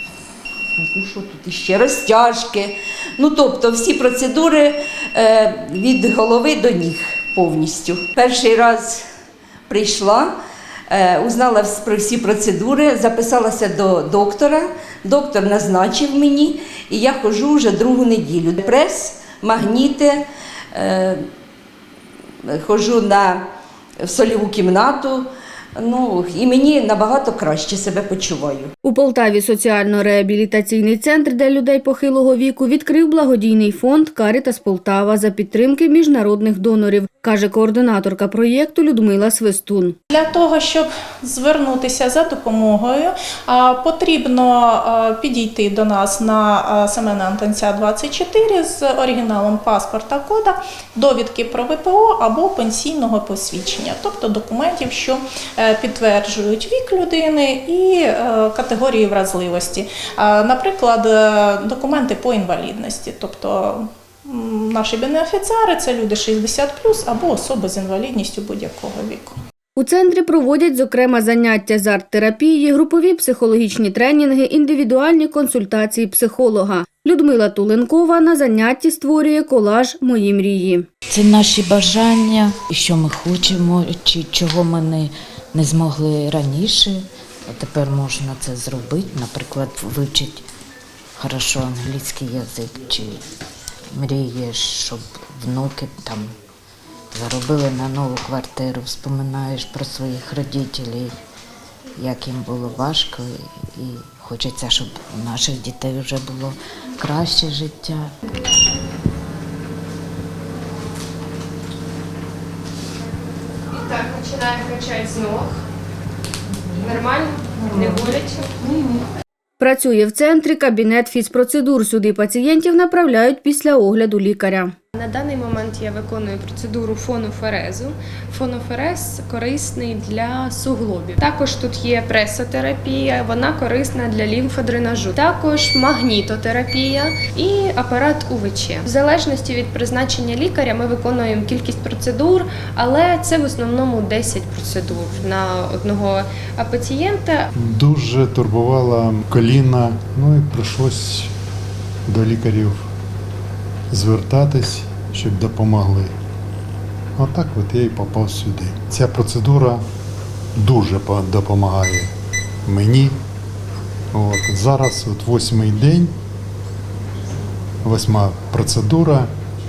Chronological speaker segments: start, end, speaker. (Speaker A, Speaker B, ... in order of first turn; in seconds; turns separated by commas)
Speaker A: 0.8-9.0, Speaker A: 9.7-10.3, Speaker A: 10.9-21.2, Speaker A: 22.5-23.4, Speaker A: 24.0-25.3, Speaker A: 25.8-28.7, Speaker B: 28.8-40.0, Speaker C: 40.1-69.3, Speaker B: 69.8-80.8, Speaker D: 81.1-90.4, Speaker D: 91.2-93.2, Speaker D: 93.9-96.3, Speaker D: 97.1-101.1, Speaker D: 102.0-108.1, Speaker E: 113.7-115.6, Speaker E: 116.8-118.8, Speaker B: 119.6-124.7, Speaker E: 124.9-147.5, Speaker F: 147.6-151.3, Speaker F: 152.1-152.9, Speaker F: 153.9-156.1, Speaker F: 157.2-159.8, Speaker F: 160.6-162.1, Speaker F: 162.7-163.2, Speaker F: 164.1-166.1, Speaker F: 167.8-169.3